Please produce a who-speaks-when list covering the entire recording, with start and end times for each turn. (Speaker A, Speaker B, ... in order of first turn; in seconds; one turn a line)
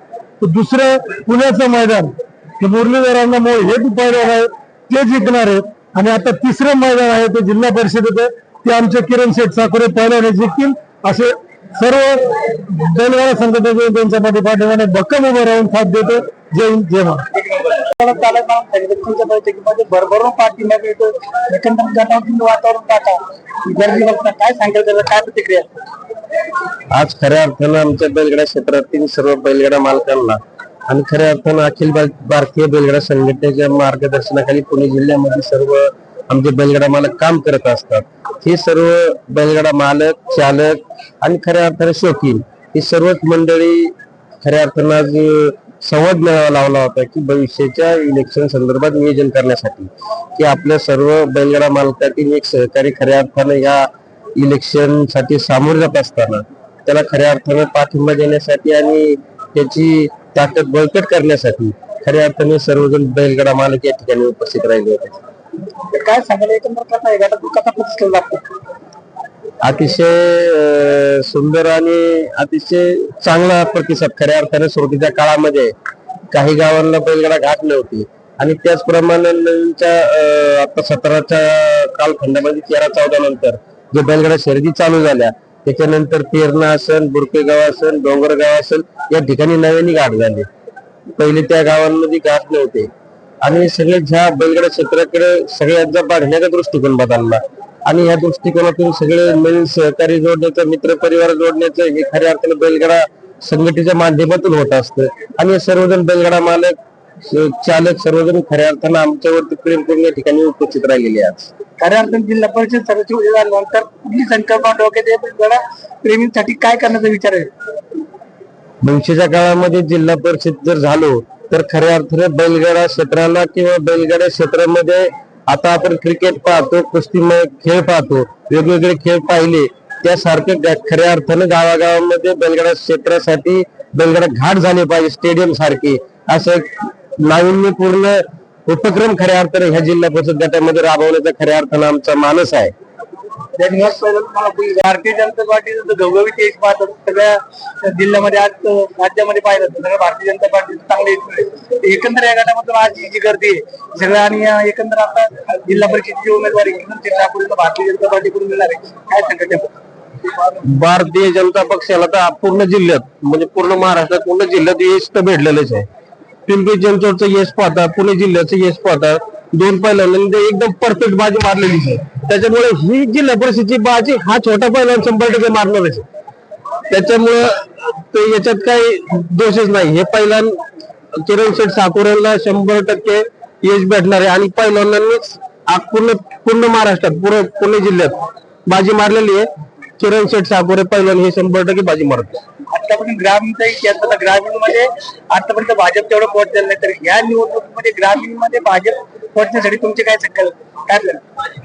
Speaker A: 0.4-17.2
Speaker B: 17.3-25.7
Speaker C: 26.9-65.2
Speaker B: 65.9-68.5
Speaker C: 69.6-75.8
Speaker C: 76.3-90.5
Speaker C: 91.2-92.9
Speaker C: 93.4-106.8
Speaker C: 107.3-111.5
Speaker B: 111.8-117.5
Speaker C: 118.8-136.7
Speaker C: 137.2-142.7
Speaker B: 143.6-159.7
Speaker C: 160.7-165.9
Speaker C: 166.5-176.1
Speaker C: 176.9-180.6
Speaker C: 181.2-189.5
Speaker C: 190.0-192.4
Speaker B: 192.7-201.2